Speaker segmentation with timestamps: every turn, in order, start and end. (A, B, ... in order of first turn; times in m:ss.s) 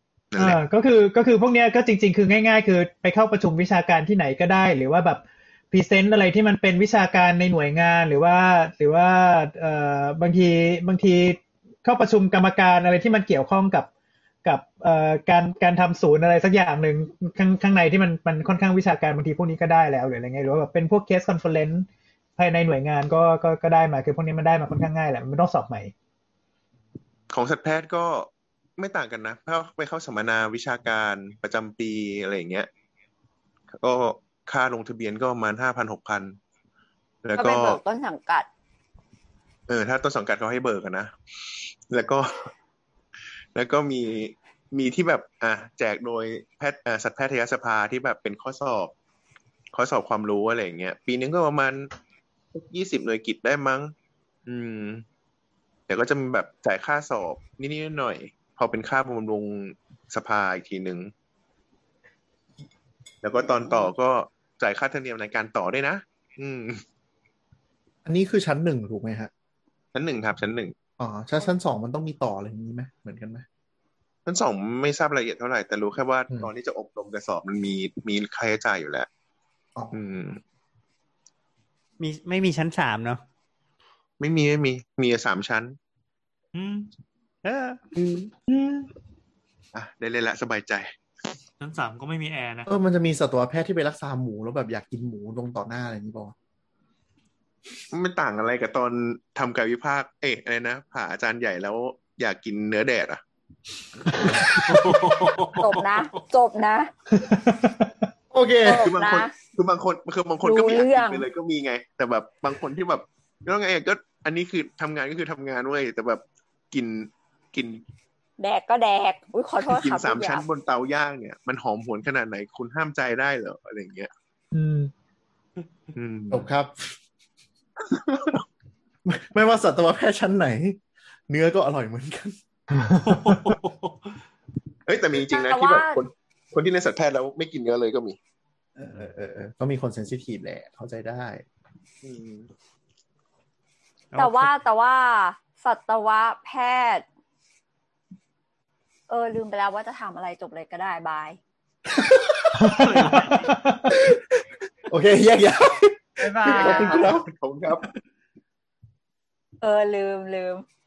0:00.3-0:00.6 A
0:00.4-0:13.9 B
0:14.4-0:25.9 B
0:27.3-0:32.7 A
0:33.7-0:36.4 A
0:37.2-0:37.8 A
0:37.4-0:38.5 C
0:39.7-0:41.1 A
0:41.9-0:42.5 A
0:43.6-0:48.9 A
0:49.7-0:51.9 A
0:52.5-0:53.9 A
0:54.5-0:55.0 A
0:55.9-1:01.1 A
1:03.2-1:06.8 A
1:08.0-1:09.3 D
1:09.9-1:10.8 A
1:11.0-1:13.4 D
1:14.2-1:19.1 A
1:19.9-1:20.4 A
1:22.0-1:23.2 E
1:24.2-1:25.8 A
1:26.5-1:26.9 F
1:27.4-1:27.9 E
1:29.7-1:30.9 A
1:31.6-1:32.7 F
1:32.6-1:36.3 D
1:37.9-1:43.2 A
1:44.6-1:45.9 F
1:45.6-1:46.9 C
1:47.1-1:47.9 B
1:48.3-1:48.9 D
1:48.6-1:49.3 C
1:48.8-1:57.8 A
1:50.4-1:51.2 C
1:58.4-2:00.4 C
1:59.7-2:04.1 A
2:04.5-2:04.9 B
2:05.9-2:06.5 A
2:06.3-2:07.0 D
2:07.8-2:08.4 A
2:09.0-2:12.4 D
2:13.1-2:14.2 F
2:14.9-2:18.2 A
2:15.3-2:16.0 C
2:18.8-2:21.4 D
2:22.0-2:22.5 A
2:24.1-2:24.6 E
2:24.2-2:27.0 C
2:29.1-2:31.4 C
2:31.9-2:32.7 D
2:32.6-2:33.9 B
2:32.8-2:33.5 F
2:33.9-2:37.3 D
2:36.2-2:37.1 E
2:36.5-2:37.9 A
2:36.7-2:37.0 C
2:39.6-2:40.6 C